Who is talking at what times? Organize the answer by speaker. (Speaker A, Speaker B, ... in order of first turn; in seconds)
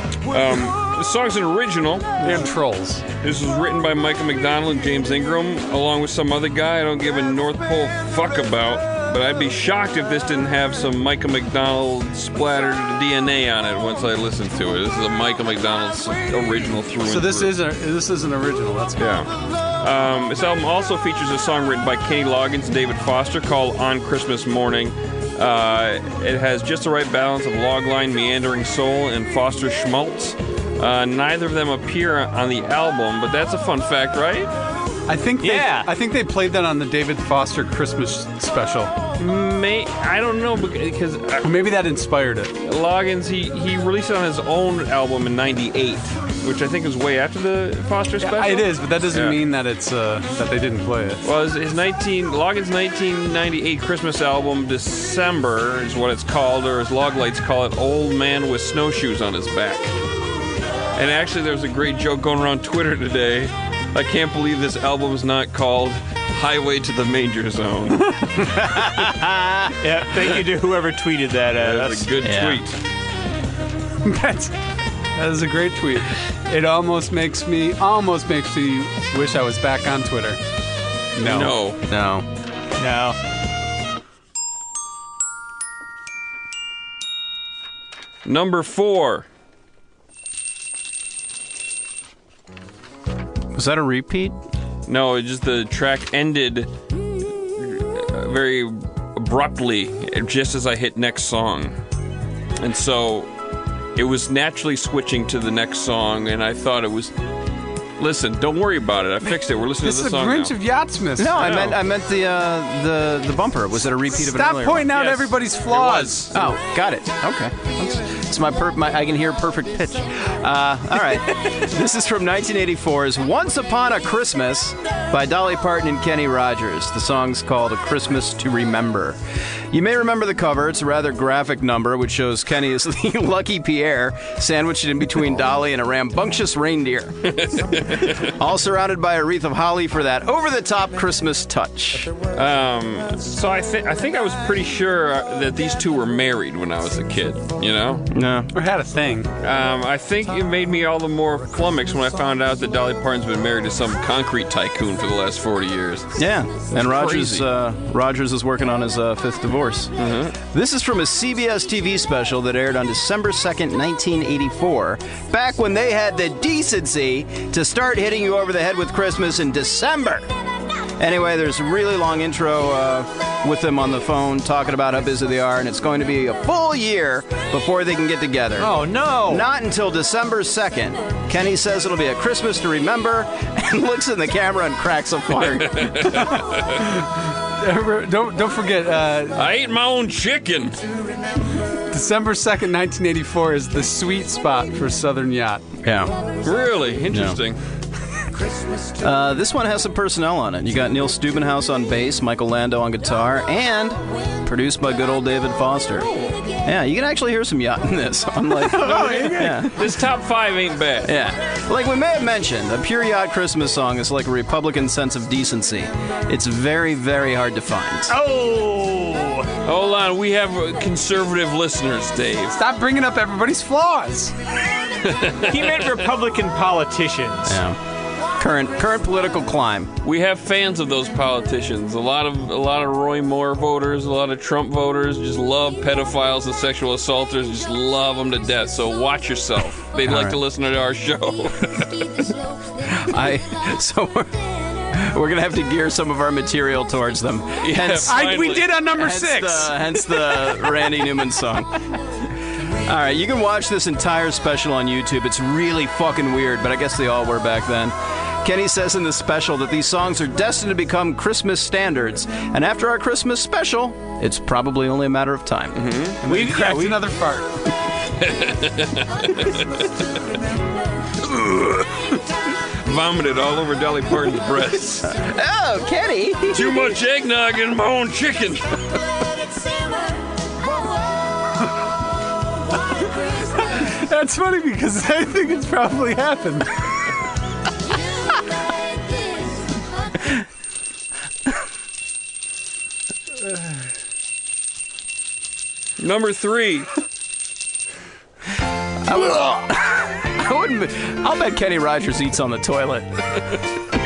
Speaker A: 0.3-2.5, 3.2-17.6, 19.0-19.3, 19.8-34.5, 39.2-41.6, 42.6-49.4, 51.2-59.9, 61.0-68.3, 71.6-72.8, 81.2-81.8, 88.2-89.3, 94.9-96.7, 97.5-101.8, 102.6-103.3, 104.0-107.1, 108.0-110.5, 111.4-111.8, 114.9-116.4, 137.2-138.3, 142.3-148.1, 149.4-156.1, 156.8-157.5, 160.0-160.4, 185.4-186.9, 189.3-190.8, 196.4-197.6, 209.6-211.1, 219.6-222.6, 225.0-225.9, 230.0-242.3, 247.6-248.8, 265.8-266.2, 268.2-269.9, 271.2-272.2, 272.9-275.1, 276.5-278.8, 296.0-296.9
Speaker B: 2.2-3.0, 17.1-19.1, 35.1-39.0, 41.4-42.5, 48.2-51.2, 74.0-74.5, 75.2-80.4, 81.2-81.6, 109.8-111.5, 114.2-116.5, 148.5-149.3, 186.1-189.4, 191.9-195.6, 208.5-209.8, 222.6-224.3, 248.1-250.5, 266.2-267.6, 283.7-286.7
Speaker C: 35.4-35.9, 69.8-72.1, 82.8-83.2, 178.6-179.5, 218.1-219.5, 225.4-227.6, 266.2-267.0
Speaker D: 68.5-69.8, 72.2-72.6, 81.8-82.3, 93.5-94.4, 111.2-114.9, 116.3-129.2, 129.7-137.2, 138.2-142.1, 148.1-148.5, 156.2-170.3, 171.0-186.1, 195.8-196.1, 197.1-197.4, 199.0-209.8, 211.0-218.1, 227.5-227.8, 228.4-229.9, 240.0-240.4, 243.0-251.7, 252.8-265.8, 275.1-276.9, 299.1-303.4